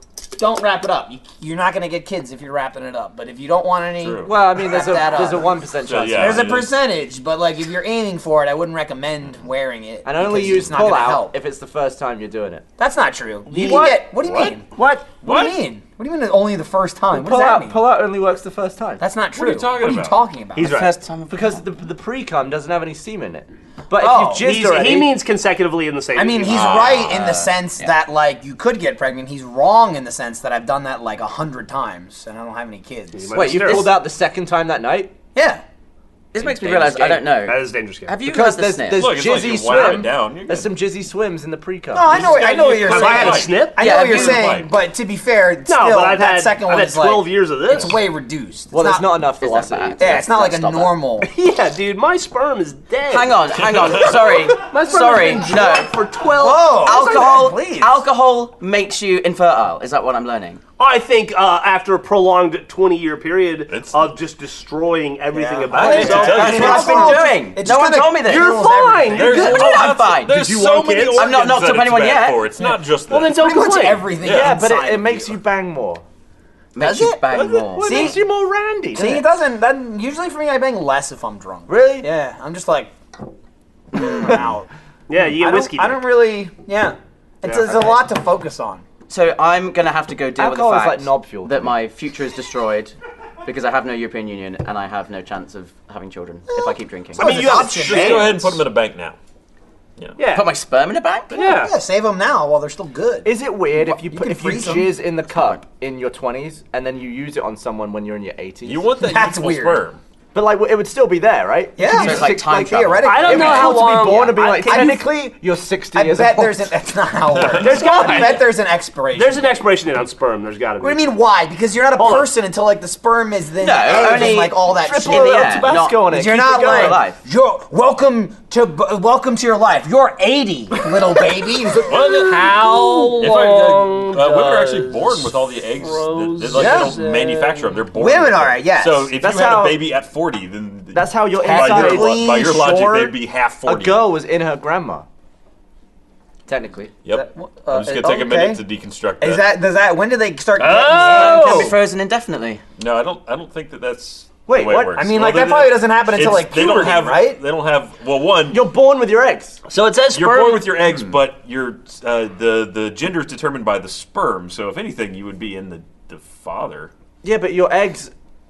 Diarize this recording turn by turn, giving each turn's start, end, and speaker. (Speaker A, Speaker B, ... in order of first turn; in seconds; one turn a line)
Speaker A: 0.3-11.4
Speaker B: 4.0-4.3
Speaker C: 4.2-6.6
Speaker B: 5.8-6.8
Speaker C: 10.1-12.7
Speaker A: 12.8-14.7
Speaker C: 13.5-15.2
Speaker B: 13.7-14.6
Speaker A: 15.2-17.9
Speaker B: 15.2-15.6
Speaker C: 17.1-19.1
Speaker A: 19.0-20.8
Speaker B: 19.4-20.2
Speaker D: 20.6-21.0
Speaker E: 20.6-21.6
Speaker C: 21.3-25.2
Speaker A: 24.0-24.5
Speaker D: 24.4-26.8
Speaker A: 26.1-33.5
Speaker B: 26.5-27.2
Speaker E: 26.6-27.9
Speaker D: 33.1-34.0
Speaker E: 33.3-34.0
Speaker C: 33.4-35.1
Speaker A: 35.4-35.6
Speaker E: 36.3-39.3
Speaker C: 36.4-37.2
Speaker D: 37.5-38.2
Speaker C: 38.2-42.2
Speaker B: 39.0-40.7
Speaker A: 41.9-49.3
Speaker D: 42.1-44.1
Speaker B: 42.1-44.7
Speaker E: 43.8-44.6
Speaker D: 45.7-48.0
Speaker C: 48.7-50.2
Speaker E: 49.4-51.0
Speaker A: 50.0-51.3
Speaker D: 51.2-57.4
Speaker E: 53.0-56.1
Speaker B: 53.6-54.1
Speaker C: 55.2-55.5
Speaker A: 56.3-58.0
Speaker E: 56.7-60.6
Speaker D: 60.8-67.2
Speaker B: 63.7-64.1
Speaker A: 65.3-70.0
Speaker B: 65.7-67.1
Speaker E: 65.9-68.7
Speaker D: 68.2-71.3
Speaker B: 69.1-73.7
Speaker E: 69.3-70.5
Speaker E: 71.1-72.5
Speaker D: 73.1-74.1
Speaker A: 73.2-75.4
Speaker B: 74.2-74.6
Speaker C: 74.2-76.0
Speaker E: 76.7-78.2
Speaker C: 76.8-79.3
Speaker D: 77.3-78.2
Speaker A: 77.8-78.2
Speaker A: 78.9-82.9
Speaker C: 81.7-82.1
Speaker A: 83.9-88.8
Speaker D: 85.1-86.0
Speaker D: 87.5-88.0
Speaker E: 89.1-97.5
Speaker C: 90.4-91.6
Speaker A: 96.5-98.7
Speaker D: 97.2-98.3
Speaker B: 97.4-99.2
Speaker D: 100.2-100.5
Speaker E: 100.2-101.5
Speaker D: 101.3-101.8
Speaker A: 101.3-103.3
Speaker C: 103.2-108.9
Speaker A: 104.0-105.0
Speaker E: 105.2-105.6
Speaker B: 108.6-110.0
Speaker A: 109.0-109.8
Speaker C: 110.3-116.7
Speaker A: 111.8-115.1
Speaker E: 111.9-114.5
Speaker D: 113.0-115.0
Speaker A: 115.9-119.6
Speaker B: 117.3-117.9
Speaker D: 117.5-118.5
Speaker E: 117.8-118.3
Speaker D: 119.1-121.1
Speaker A: 120.8-132.1
Speaker D: 122.0-122.3
Speaker E: 123.6-127.2
Speaker C: 124.4-127.0
Speaker D: 131.8-137.8
Speaker B: 131.9-132.5
Speaker B: 133.2-144.1
Speaker C: 136.5-137.0
Speaker A: 137.9-139.2
Speaker C: 139.2-139.8
Speaker C: 140.9-142.3
Speaker A: 141.4-143.2
Speaker C: 143.6-145.1
Speaker C: 146.5-146.9
Speaker B: 147.1-149.4
Speaker A: 147.1-148.6
Speaker A: 149.2-151.7
Speaker D: 150.6-151.8
Speaker E: 150.8-152.6
Speaker B: 152.8-158.7
Speaker C: 154.5-155.0
Speaker A: 154.9-157.4
Speaker C: 158.5-159.6
Speaker D: 159.7-160.8
Speaker B: 160.1-166.9
Speaker C: 167.2-168.1